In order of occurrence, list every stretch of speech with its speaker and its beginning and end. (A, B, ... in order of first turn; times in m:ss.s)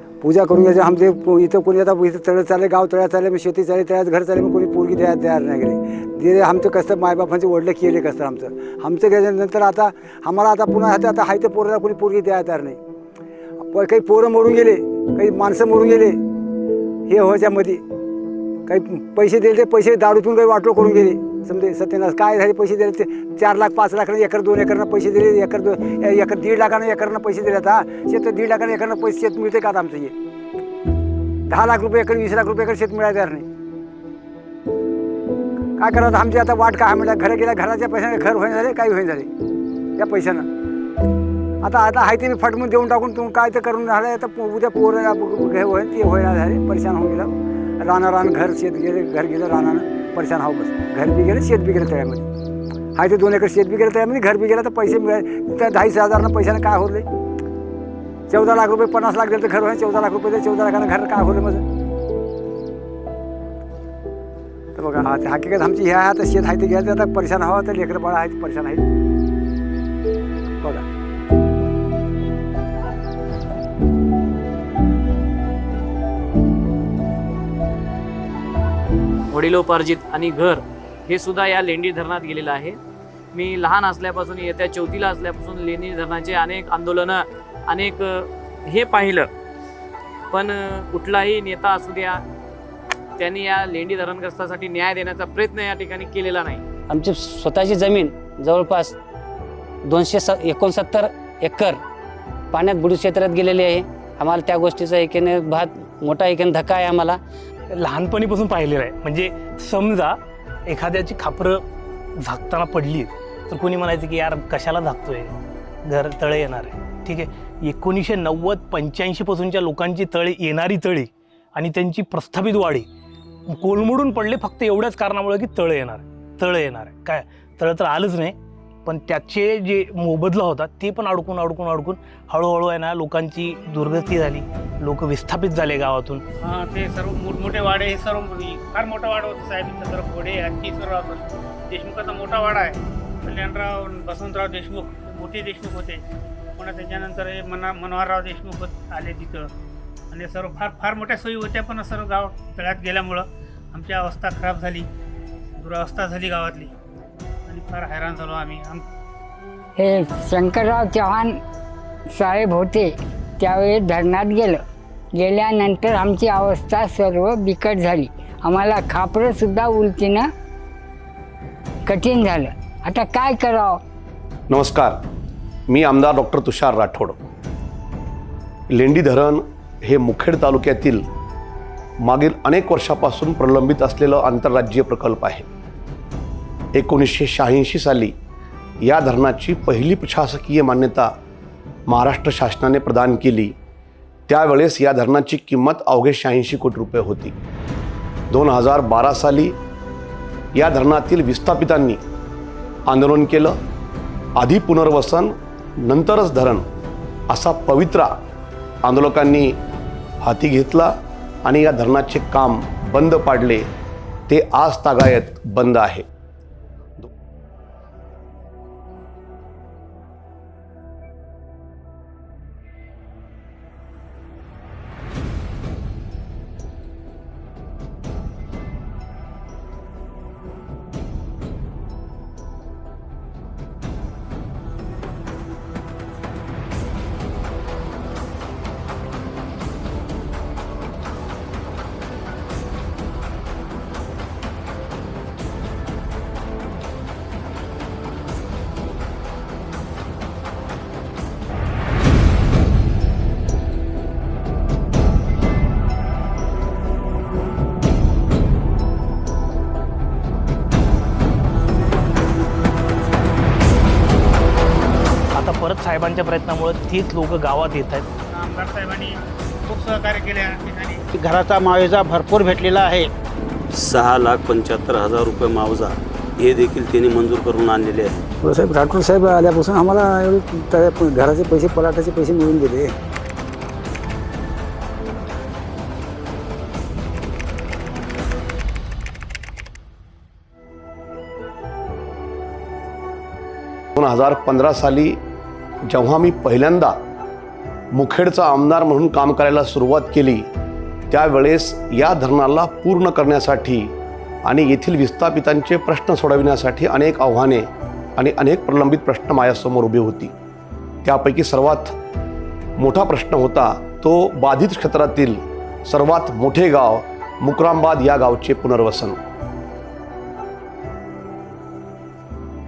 0:00.2-0:12.8 A
0:13.7-0:16.2 A
0:17.1-0:17.8 A
0:18.7-0:30.1 A
0:31.5-0:33.4 A
0:35.8-0:39.3 A
0:40.0-0:40.5 A
0:41.6-0:52.3 A
0:52.9-0:57.1 A
0:58.3-1:01.6 A
1:04.7-1:08.8 A
1:19.3-1:22.8 B
1:23.3-1:29.3 B
1:30.3-1:32.2 B
1:33.2-1:36.6 B
1:36.9-1:39.0 C
1:39.8-1:41.8 C
1:42.5-1:47.2 C
1:47.7-1:50.2 D
1:50.7-1:51.6 D
1:52.2-1:55.3 D
1:55.9-2:02.9 D
2:03.5-2:16.2 D
2:16.4-2:26.0 E
2:26.6-2:29.5 E
2:30.1-2:34.9 E
2:35.6-2:36.7 E
2:37.5-2:38.8 E
2:39.8-2:41.3 F
2:42.2-2:44.6 F
2:45.2-2:50.3 F
2:51.9-2:53.8 F
2:54.5-2:54.9 G
2:55.7-2:57.2 G
2:58.7-3:01.0 G
3:02.0-3:05.4 G
3:06.7-3:08.1 G
3:08.8-3:11.1 G
3:11.9-3:13.5 G
3:14.3-3:17.3 G
3:18.3-3:19.5 G
3:20.5-3:22.0 G
3:22.9-3:23.5 G
3:24.4-3:25.3 G
3:25.8-3:26.6 G
3:27.3-3:28.1 G
3:28.8-3:29.6 G
3:30.2-3:30.9 G
3:31.4-3:33.7 G
3:34.3-3:36.0 G
4:25.4-4:28.1 D
4:28.3-4:31.0 E
4:31.1-4:33.1 H
4:33.7-4:38.2 I
4:38.4-4:42.9 A
4:54.0-4:55.2 G
4:55.9-4:56.9 G
4:57.9-5:00.5 G
5:01.1-5:03.9 G
5:04.4-5:10.3 G
5:11.0-5:11.9 G
5:12.8-5:19.2 G